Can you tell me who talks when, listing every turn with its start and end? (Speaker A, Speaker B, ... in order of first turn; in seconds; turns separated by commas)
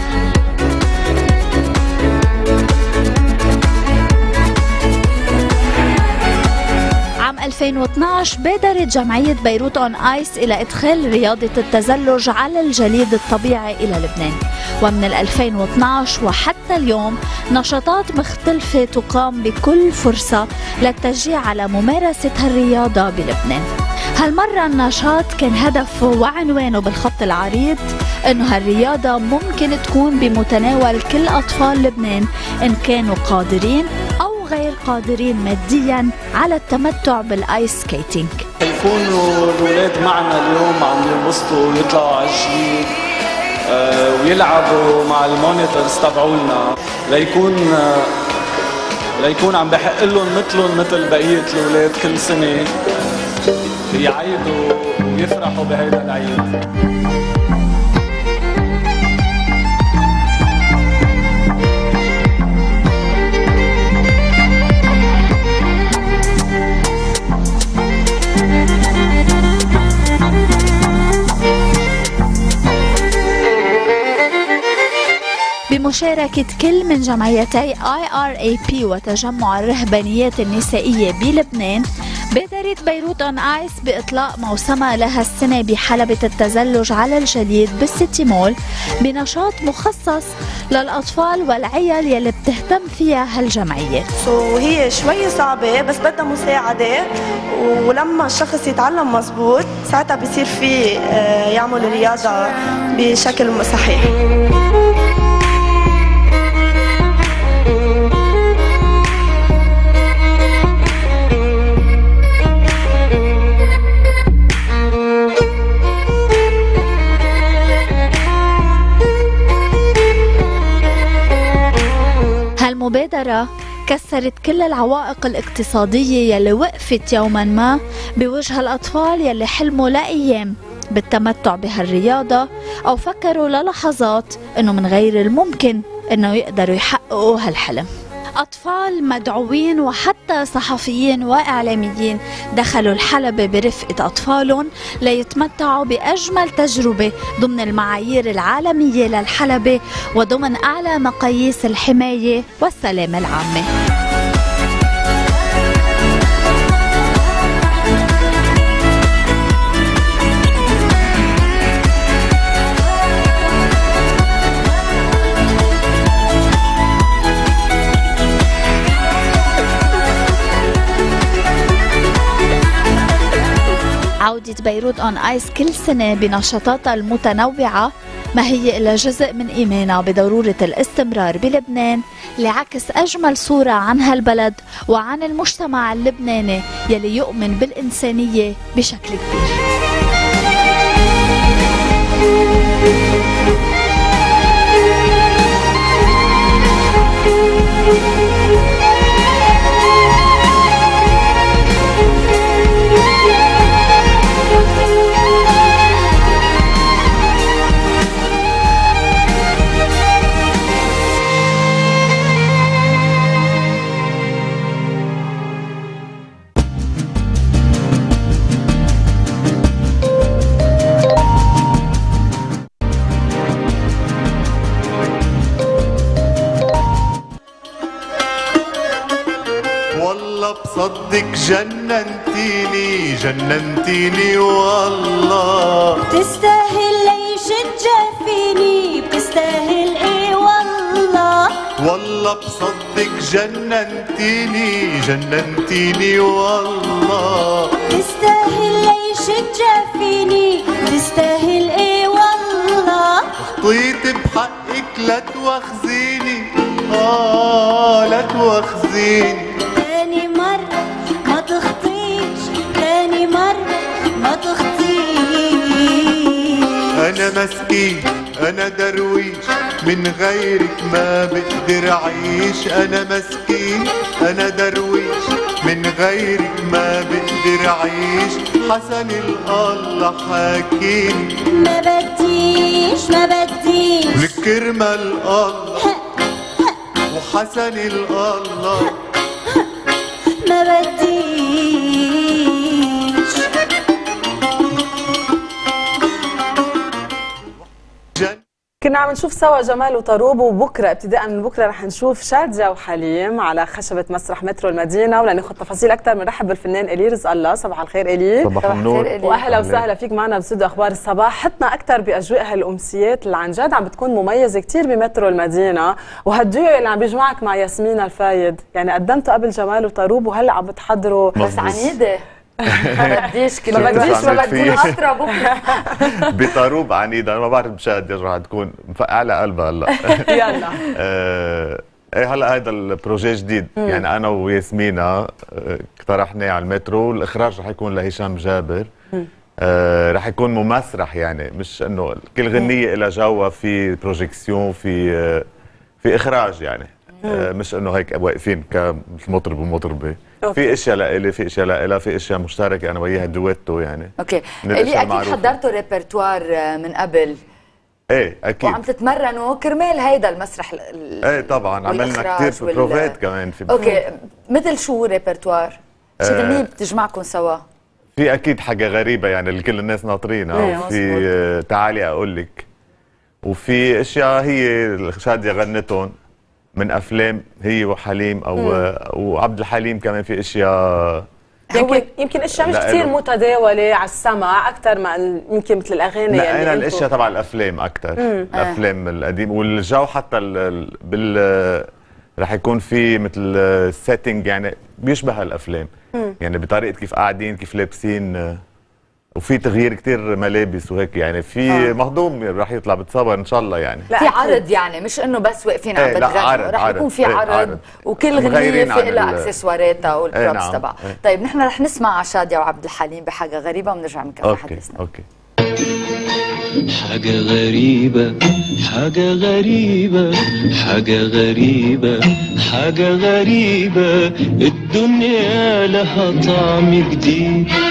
Speaker A: 7.2-38.4, Speaker B: 38.6-42.9, Speaker B: 43.7-48.1, Speaker B: 49.2-52.7, Speaker B: 53.9-56.5, Speaker A: 75.7-94.1, Speaker C: 94.2-104.1, Speaker A: 122.6-137.9, Speaker A: 138.4-153.7, Speaker A: 174.2-189.7, Speaker D: 230.0-236.0, Speaker E: 236.1-241.6, Speaker D: 241.8-247.7, Speaker E: 247.9-253.3, Speaker D: 253.4-259.6, Speaker E: 259.7-266.8, Speaker D: 267.0-281.4, Speaker E: 281.5-284.4, Speaker D: 284.1-285.8, Speaker D: 287.1-288.9, Speaker E: 290.4-293.4, Speaker F: 298.8-308.5, Speaker G: 308.4-309.8, Speaker H: 308.6-309.6, Speaker F: 309.2-321.4, Speaker G: 321.4-322.0, Speaker H: 321.4-322.2, Speaker F: 322.6-326.1, Speaker H: 323.0-325.9, Speaker G: 323.7-325.0, Speaker G: 326.3-330.2, Speaker F: 330.3-330.8, Speaker G: 330.9-338.9, Speaker G: 339.6-345.4, Speaker G: 346.0-354.1, Speaker F: 350.4-350.7, Speaker H: 354.2-357.4, Speaker G: 354.6-355.6, Speaker G: 358.1-358.8, Speaker H: 358.6-363.2, Speaker G: 361.2-363.9, Speaker H: 363.7-367.6, Speaker G: 366.2-366.7, Speaker G: 368.1-372.7, Speaker F: 370.5-370.9, Speaker H: 370.5-371.2, Speaker G: 373.4-376.1, Speaker G: 376.8-381.2, Speaker F: 378.6-378.8, Speaker H: 381.7-382.0, Speaker F: 381.7-387.1, Speaker G: 382.6-383.1, Speaker G: 386.3-391.9, Speaker F: 388.2-388.5, Speaker H: 388.5-388.8, Speaker G: 392.4-398.6, Speaker G: 399.4-404.1, Speaker F: 404.1-404.6, Speaker H: 404.2-415.0, Speaker G: 405.9-409.5, Speaker G: 410.3-411.1, Speaker G: 414.4-415.2, Speaker I: 417.0-427.7